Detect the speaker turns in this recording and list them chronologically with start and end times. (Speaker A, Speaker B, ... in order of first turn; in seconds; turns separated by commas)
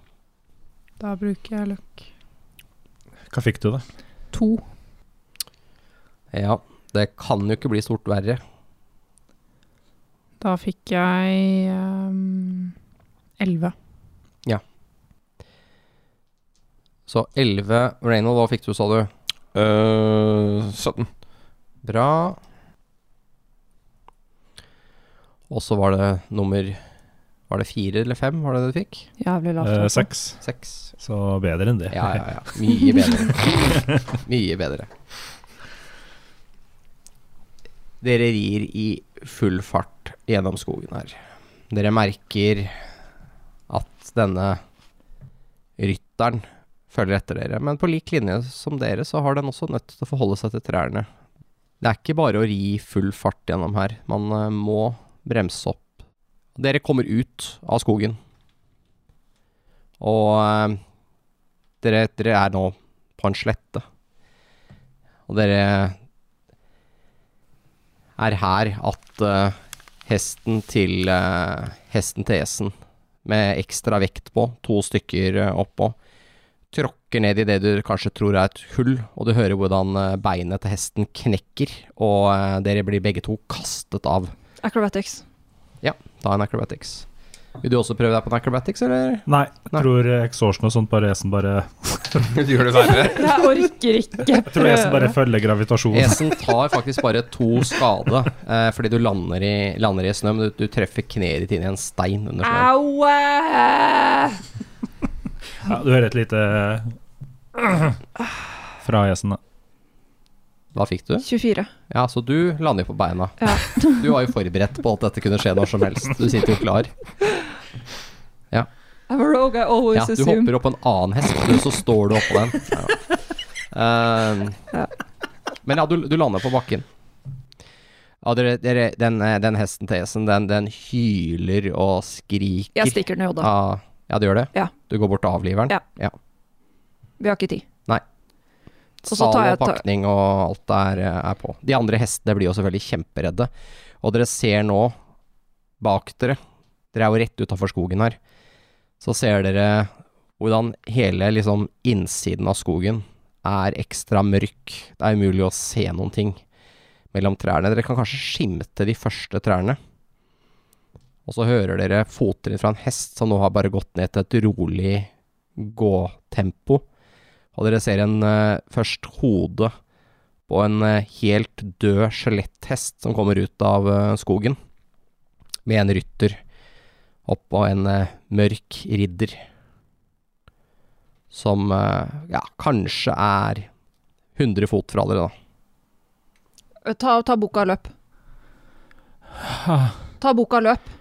Speaker A: 1.0-2.0, Speaker B: 3.3-3.8, Speaker A: 4.3-4.6, Speaker C: 6.3-8.4, Speaker A: 10.4-12.7, Speaker A: 13.4-13.7, Speaker C: 17.1-19.1, Speaker D: 19.5-21.1, Speaker C: 21.8-22.4, Speaker C: 25.5-26.8, Speaker C: 27.5-29.1, Speaker E: 29.2-30.1, Speaker B: 29.6-30.4, Speaker C: 30.4-30.8, Speaker B: 31.0-32.2, Speaker C: 31.9-34.9, Speaker C: 38.0-41.2, Speaker C: 41.7-42.8, Speaker C: 43.7-44.6, Speaker C: 45.8-51.1, Speaker C: 51.8-55.9, Speaker C: 56.5-58.2, Speaker C: 60.0-60.8, Speaker C: 61.8-63.8, Speaker C: 65.3-66.0, Speaker C: 68.2-72.7, Speaker C: 73.2-76.0, Speaker C: 76.7-84.3, Speaker E: 84.6-85.2, Speaker C: 85.8-87.0, Speaker C: 87.6-89.8, Speaker B: 89.3-92.4, Speaker D: 92.3-93.4, Speaker E: 92.9-95.1, Speaker B: 94.5-96.2, Speaker C: 95.9-102.7, Speaker E: 102.4-104.4, Speaker B: 105.6-106.9, Speaker B: 107.5-108.0, Speaker B: 108.8-109.4, Speaker C: 110.7-111.2, Speaker E: 111.2-111.7, Speaker C: 111.9-116.9, Speaker E: 113.4-114.0, Speaker E: 119.1-120.5, Speaker C: 119.9-123.1, Speaker C: 123.7-124.6, Speaker C: 125.6-126.9, Speaker C: 128.2-136.1, Speaker E: 132.7-133.5, Speaker E: 137.2-137.6, Speaker C: 139.0-143.5, Speaker E: 139.1-139.8, Speaker C: 144.0-144.9, Speaker C: 145.8-146.4, Speaker C: 146.9-148.2, Speaker C: 149.0-156.4, Speaker C: 157.1-159.8, Speaker C: 161.2-166.8, Speaker C: 167.5-169.7, Speaker C: 170.5-174.6, Speaker C: 175.7-176.4, Speaker C: 177.2-179.4, Speaker C: 181.3-183.7, Speaker C: 184.3-185.3, Speaker E: 186.8-187.9, Speaker E: 190.2-190.9